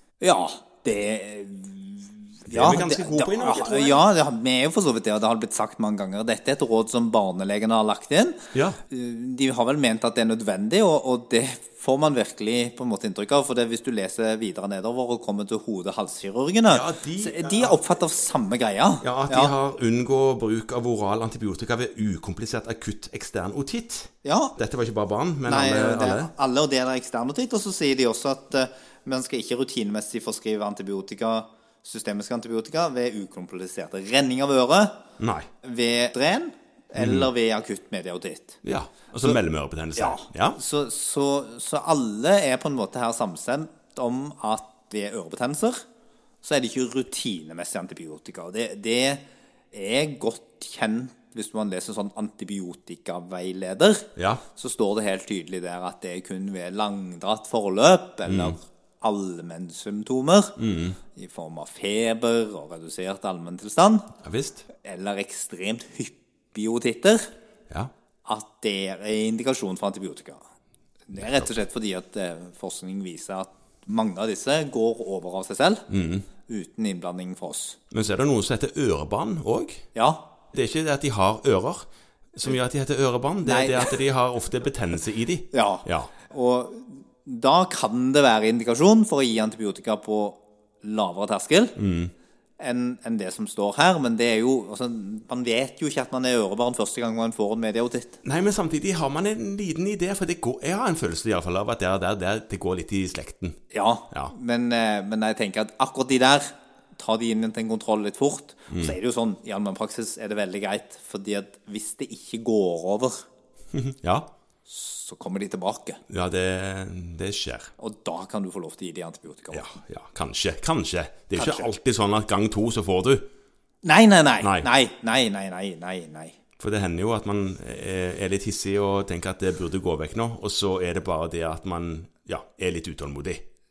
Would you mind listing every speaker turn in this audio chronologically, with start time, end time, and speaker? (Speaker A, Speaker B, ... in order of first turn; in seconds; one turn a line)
Speaker A: 0.2-19.5
Speaker B: 2.5-4.0
Speaker B: 16.7-17.8
Speaker B: 19.0-26.3
Speaker A: 24.2-24.6
Speaker A: 25.5-35.0
Speaker B: 35.2-35.5
Speaker A: 35.6-38.6
Speaker B: 37.0-37.3
Speaker B: 38.6-40.6
Speaker A: 40.0-45.8
Speaker A: 46.4-49.2
Speaker A: 49.7-60.6
Speaker B: 54.2-54.4
Speaker B: 58.3-58.6
Speaker B: 60.6-61.0
Speaker A: 61.1-64.1
Speaker B: 64.2-64.7
Speaker A: 64.7-67.3
Speaker A: 68.3-70.4
Speaker A: 71.1-75.9
Speaker B: 75.9-76.3
Speaker A: 76.5-77.8
Speaker B: 77.9-79.8
Speaker A: 79.9-80.2
Speaker B: 80.5-86.1
Speaker A: 83.4-84.0
Speaker A: 85.5-91.8
Speaker B: 91.8-92.1
Speaker A: 92.6-98.2
Speaker B: 98.2-103.6
Speaker A: 103.7-113.2
Speaker B: 108.7-109.0
Speaker B: 113.7-114.3
Speaker A: 114.7-116.0
Speaker B: 116.1-117.7
Speaker A: 117.8-119.7
Speaker B: 119.5-123.3
Speaker A: 121.3-121.8
Speaker A: 123.8-126.4
Speaker B: 124.4-124.7
Speaker B: 126.6-133.4